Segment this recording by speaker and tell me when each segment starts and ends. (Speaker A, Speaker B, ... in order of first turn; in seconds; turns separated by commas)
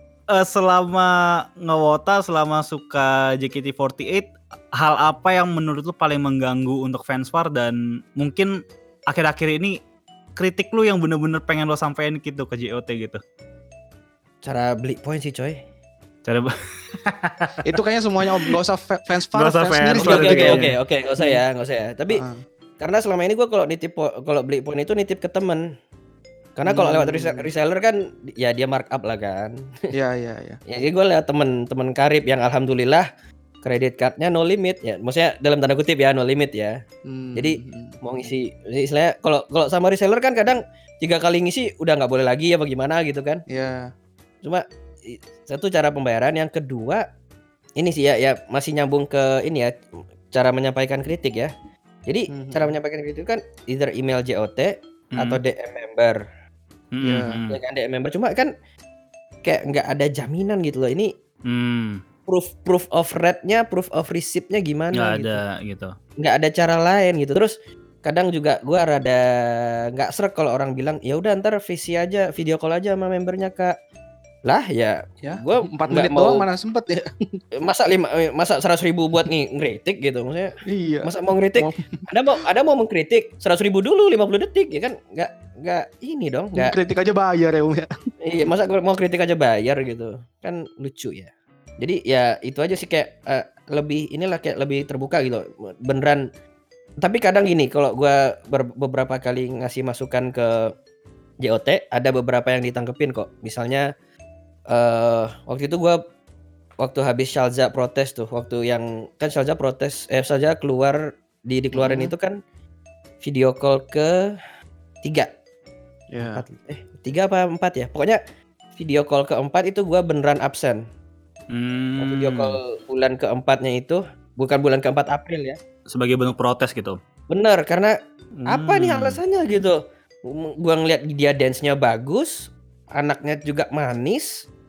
Speaker A: 0.3-8.5, Speaker A: 9.1-9.8, Speaker A: 10.4-13.2, Speaker B: 14.4-15.6, Speaker A: 16.2-17.7, Speaker C: 17.6-20.7, Speaker A: 19.3-20.7, Speaker B: 20.0-22.2, Speaker C: 22.1-22.4, Speaker B: 22.8-25.6, Speaker B: 26.6-29.5, Speaker C: 26.6-27.5, Speaker C: 29.9-30.6, Speaker B: 30.7-33.0, Speaker B: 33.6-36.8, Speaker C: 37.1-38.0, Speaker B: 37.4-43.4, Speaker C: 43.5-43.8, Speaker B: 44.4-47.0, Speaker B: 47.8-49.7, Speaker B: 50.3-51.5, Speaker B: 52.1-56.2, Speaker C: 52.3-52.7, Speaker A: 56.9-57.6, Speaker C: 57.0-57.4, Speaker B: 57.5-58.5, Speaker B: 59.4-61.1, Speaker A: 61.5-62.0, Speaker B: 62.3-65.4, Speaker A: 65.0-65.9, Speaker B: 66.2-67.5, Speaker B: 68.0-73.7, Speaker B: 74.5-76.5, Speaker C: 75.2-77.4, Speaker B: 77.6-80.5, Speaker C: 80.7-82.0, Speaker B: 81.0-86.8, Speaker C: 86.5-87.9, Speaker B: 88.2-96.2, Speaker B: 97.0-100.7, Speaker B: 101.4-103.9, Speaker B: 104.7-106.0, Speaker B: 106.8-112.3, Speaker C: 111.7-112.1, Speaker B: 113.2-114.1, Speaker B: 115.0-115.3, Speaker C: 116.1-116.4, Speaker B: 116.3-118.2, Speaker B: 118.8-120.8, Speaker A: 121.5-122.5, Speaker B: 122.0-125.6, Speaker A: 125.9-127.0, Speaker B: 127.3-127.9, Speaker A: 128.4-129.2, Speaker B: 128.5-129.8, Speaker B: 130.3-134.5